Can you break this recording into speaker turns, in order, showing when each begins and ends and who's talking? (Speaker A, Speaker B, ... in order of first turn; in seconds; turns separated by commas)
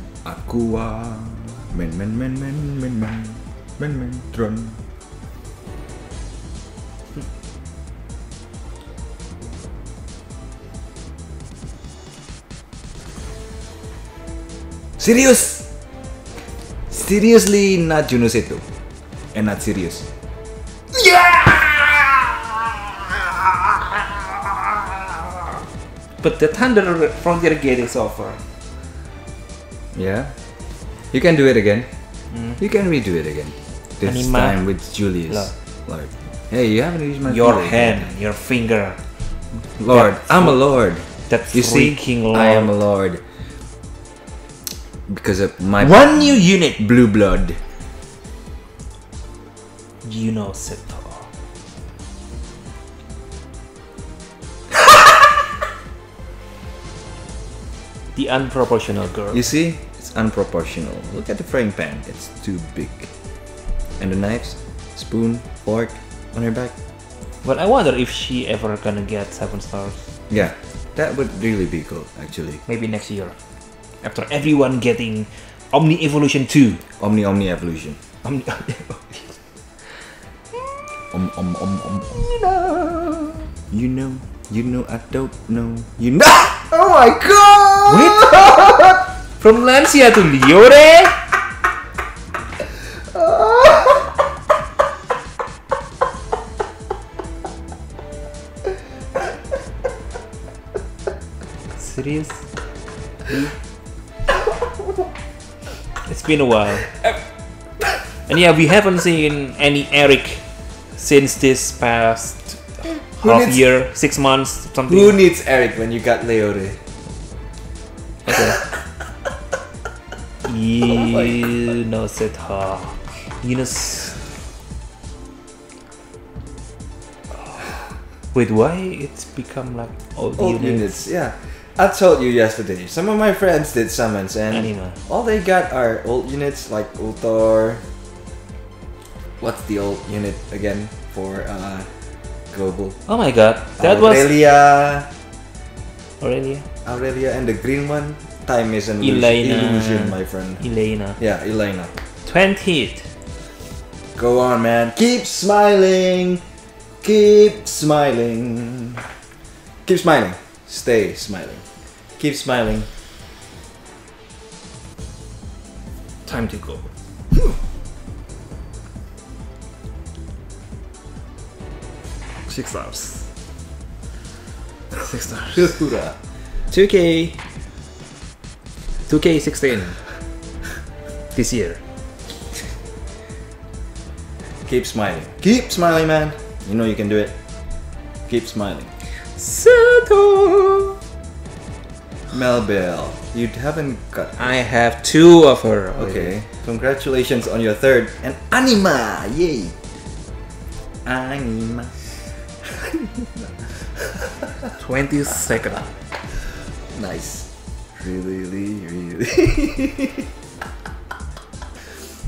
Speaker A: 0.2-4.8, Speaker A: 15.0-15.7, Speaker A: 16.9-18.6, Speaker A: 19.3-20.1, Speaker B: 20.9-25.5, Speaker B: 26.2-28.4, Speaker A: 29.9-30.3, Speaker A: 31.1-31.9, Speaker B: 32.3-32.6, Speaker A: 32.6-38.1, Speaker B: 34.0-34.6, Speaker B: 37.2-39.0, Speaker A: 39.8-43.2, Speaker B: 39.9-40.6, Speaker B: 41.3-42.7, Speaker A: 45.1-47.6, Speaker B: 45.8-46.8, Speaker B: 50.0-51.3, Speaker B: 58.1-59.4, Speaker A: 59.3-63.1, Speaker A: 64.0-66.7, Speaker B: 67.4-70.0, Speaker A: 70.3-72.6, Speaker B: 72.7-73.3, Speaker B: 74.0-76.8, Speaker A: 77.0-78.0, Speaker B: 78.2-79.3, Speaker A: 81.1-89.0, Speaker B: 87.8-91.2, Speaker A: 93.1-94.0, Speaker B: 101.7-102.5, Speaker B: 103.3-103.5, Speaker B: 106.0-107.0, Speaker B: 108.2-115.2, Speaker A: 113.2-113.7, Speaker A: 114.9-116.8, Speaker B: 118.2-118.6, Speaker B: 120.4-124.2, Speaker A: 120.9-121.7, Speaker B: 128.3-131.0, Speaker A: 130.4-137.8, Speaker B: 134.5-135.0, Speaker A: 139.4-141.9, Speaker A: 142.5-143.0, Speaker B: 143.1-144.3, Speaker A: 143.8-145.1, Speaker B: 146.2-146.7, Speaker A: 146.8-150.6, Speaker B: 149.0-151.2, Speaker A: 151.2-151.9, Speaker B: 152.2-153.1, Speaker A: 154.1-156.4, Speaker A: 157.0-159.1, Speaker A: 159.8-161.6, Speaker A: 162.2-162.9, Speaker B: 166.2-166.9, Speaker B: 172.4-173.3, Speaker B: 174.9-175.8, Speaker A: 175.5-176.2, Speaker B: 176.7-177.4, Speaker B: 179.1-180.0, Speaker B: 181.3-181.8, Speaker A: 184.7-187.3, Speaker A: 188.3-188.9, Speaker B: 189.3-191.0, Speaker A: 192.3-194.6, Speaker B: 194.4-196.3, Speaker A: 195.9-199.7, Speaker A: 201.0-202.1, Speaker A: 203.4-203.7, Speaker B: 204.8-205.9, Speaker A: 206.9-210.2